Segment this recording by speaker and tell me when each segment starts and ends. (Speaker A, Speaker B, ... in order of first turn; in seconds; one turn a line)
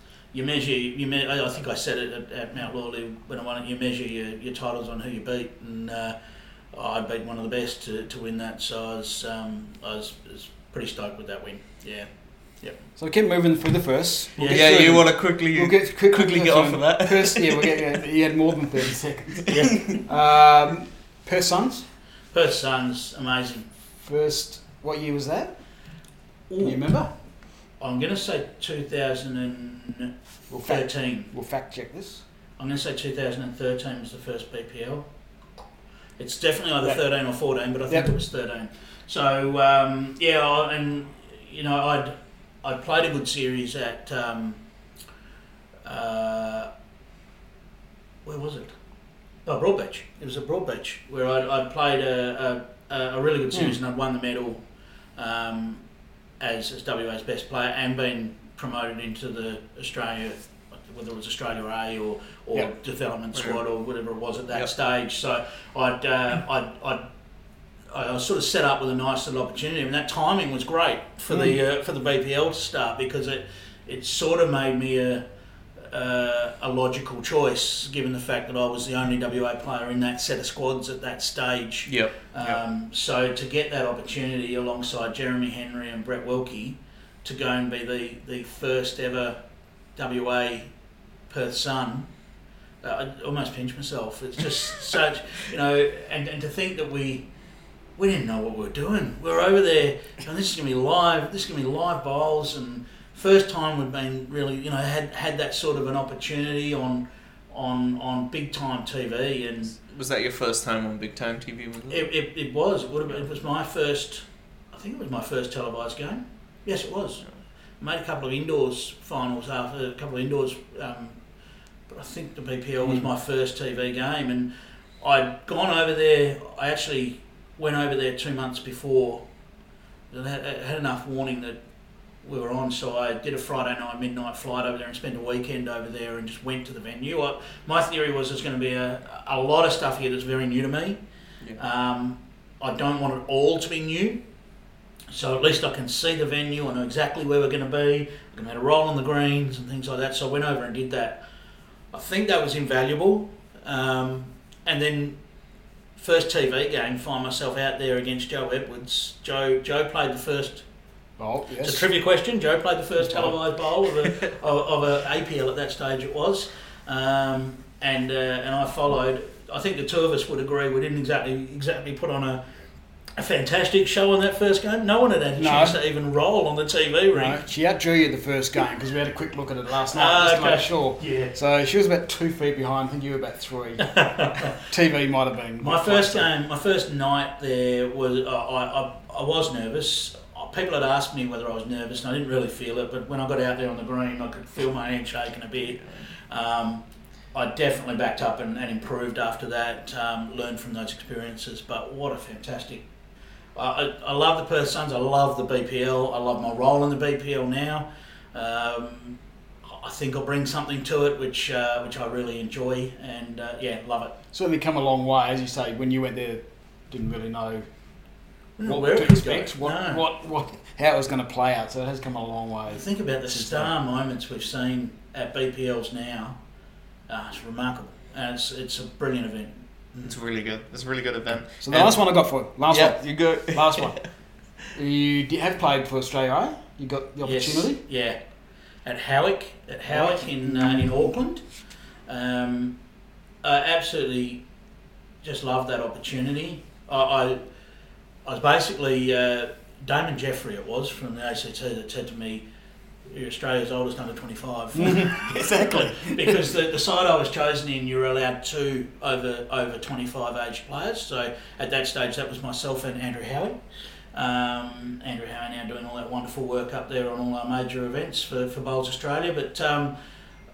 Speaker A: 0.3-6.2
Speaker A: 6.7-12.8
Speaker B: 13.0-21.9
Speaker A: 14.3-15.0
Speaker C: 14.5-17.8
Speaker A: 19.5-19.9
Speaker A: 22.3-23.7
Speaker B: 24.0-25.9
Speaker A: 26.5-27.1
Speaker B: 26.6-27.1
Speaker A: 27.8-31.3
Speaker B: 30.5-32.2
Speaker A: 32.6-35.0
Speaker A: 36.2-44.6
Speaker A: 45.8-46.7
Speaker A: 48.2-48.7
Speaker A: 49.4-55.9
Speaker A: 56.4-67.0
Speaker C: 63.3-63.6
Speaker A: 67.9-75.2
Speaker B: 71.3-71.6
Speaker A: 75.8-90.7
Speaker C: 81.9-82.6
Speaker A: 91.3-92.2
Speaker A: 92.8-97.3
Speaker A: 98.0-109.8
Speaker C: 109.8-112.1
Speaker A: 111.9-121.2
Speaker A: 121.9-129.3
Speaker A: 130.1-131.6
Speaker A: 132.2-141.0
Speaker A: 141.6-144.2
Speaker A: 145.1-151.2
Speaker A: 151.9-155.2
Speaker A: 155.9-160.7
Speaker B: 161.2-161.8
Speaker A: 161.6-172.4
Speaker B: 163.1-163.3
Speaker A: 173.1-177.4
Speaker B: 175.4-175.8
Speaker B: 177.1-186.3
Speaker A: 179.9-181.3
Speaker A: 183.8-184.5
Speaker A: 185.6-202.8
Speaker A: 203.5-214.1
Speaker B: 214.3-217.7
Speaker A: 218.6-220.0
Speaker B: 218.6-223.7
Speaker A: 222.7-226.4
Speaker A: 227.1-230.1
Speaker C: 230.0-234.1
Speaker B: 231.6-234.1
Speaker B: 234.7-237.8
Speaker A: 237.2-238.2
Speaker A: 238.8-242.8
Speaker B: 239.9-241.1
Speaker A: 243.4-244.4
Speaker A: 245.2-247.5
Speaker A: 248.2-252.4
Speaker A: 253.1-269.9
Speaker B: 254.7-255.3
Speaker C: 255.1-256.4